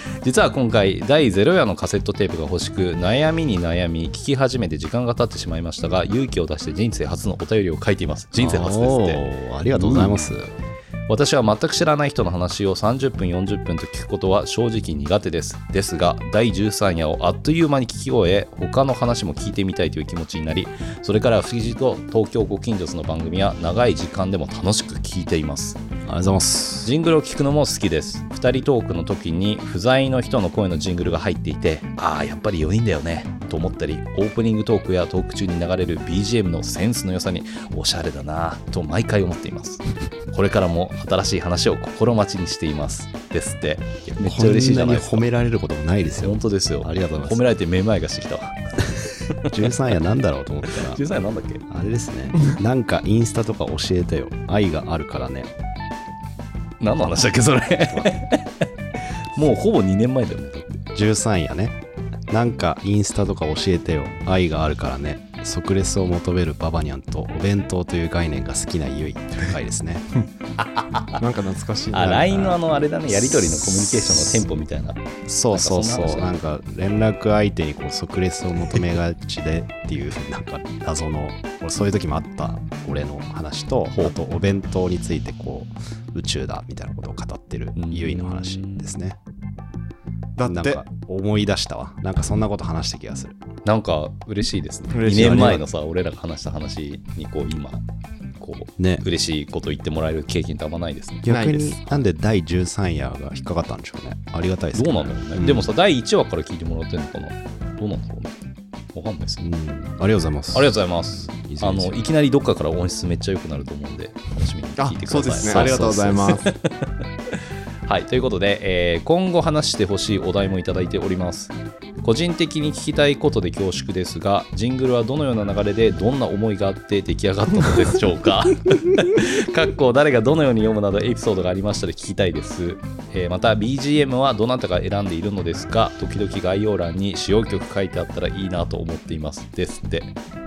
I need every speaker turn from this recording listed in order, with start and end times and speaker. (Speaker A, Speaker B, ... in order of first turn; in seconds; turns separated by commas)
Speaker A: 0.2-10.3, Speaker B: 8.3-10.5, Speaker A: 11.1-25.8, Speaker B: 26.1-26.9, Speaker A: 26.8-45.3, Speaker B: 44.2-47.4, Speaker A: 46.1-48.5, Speaker B: 49.5-51.0, Speaker A: 50.7-51.6, Speaker B: 51.7-55.5, Speaker A: 56.8-58.4, Speaker B: 57.9-58.2, Speaker A: 59.4-60.8, Speaker B: 61.0-61.8, Speaker B: 62.3-70.1, Speaker A: 70.6-71.2, Speaker C: 71.2-72.6, Speaker A: 71.9-76.4, Speaker B: 75.3-89.2, Speaker A: 87.8-89.0, Speaker C: 90.4-90.8, Speaker B: 90.5-93.4, Speaker A: 93.7-97.8, Speaker C: 94.9-95.7, Speaker B: 95.3-95.6, Speaker A: 98.4-101.3, Speaker B: 98.8-99.0, Speaker B: 101.2-105.7, Speaker C: 101.3-101.8, Speaker A: 104.7-108.4, Speaker A: 108.9-109.4, Speaker B: 109.4-112.0, Speaker A: 110.5-116.7, Speaker C: 114.8-116.5, Speaker A: 117.9-140.1